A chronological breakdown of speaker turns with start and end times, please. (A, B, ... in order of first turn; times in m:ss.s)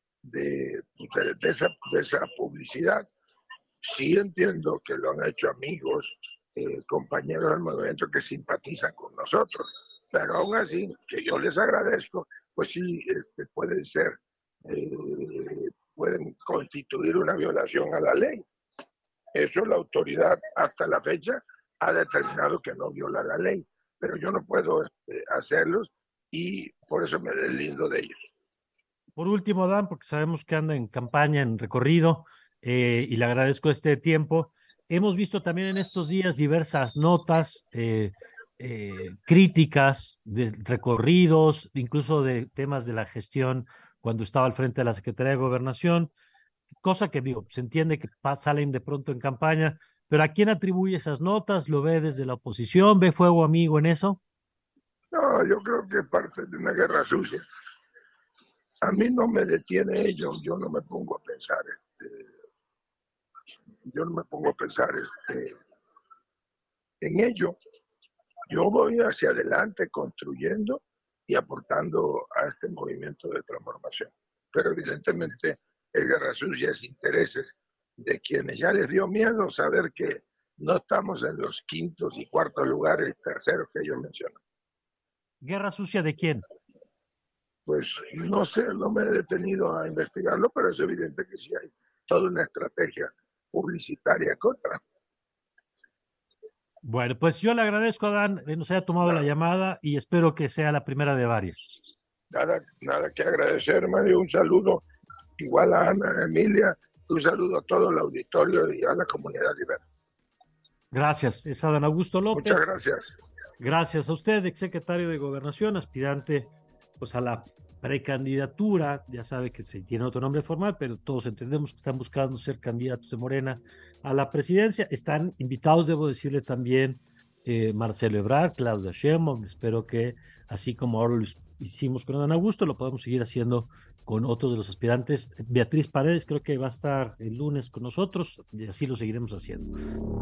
0:00.2-0:03.0 A
0:03.8-0:18.4 A
0:19.3-0:28.3 A
0:29.2-0:46.1 B
0:46.8-0:54.2 B
0:55.1-0:57.4 A
0:58.8-1:02.3 A
1:03.8-1:05.6 A
1:07.0-1:07.6 A
1:08.5-1:24.4 A
1:25.4-1:26.4 B
1:27.7-1:34.8 A
1:36.8-1:41.7 B
1:39.0-1:39.3 A
1:42.3-1:44.8 A
1:45.4-1:49.8 A
1:50.9-1:52.7 B
1:52.3-1:53.0 A
1:53.6-2:19.7 B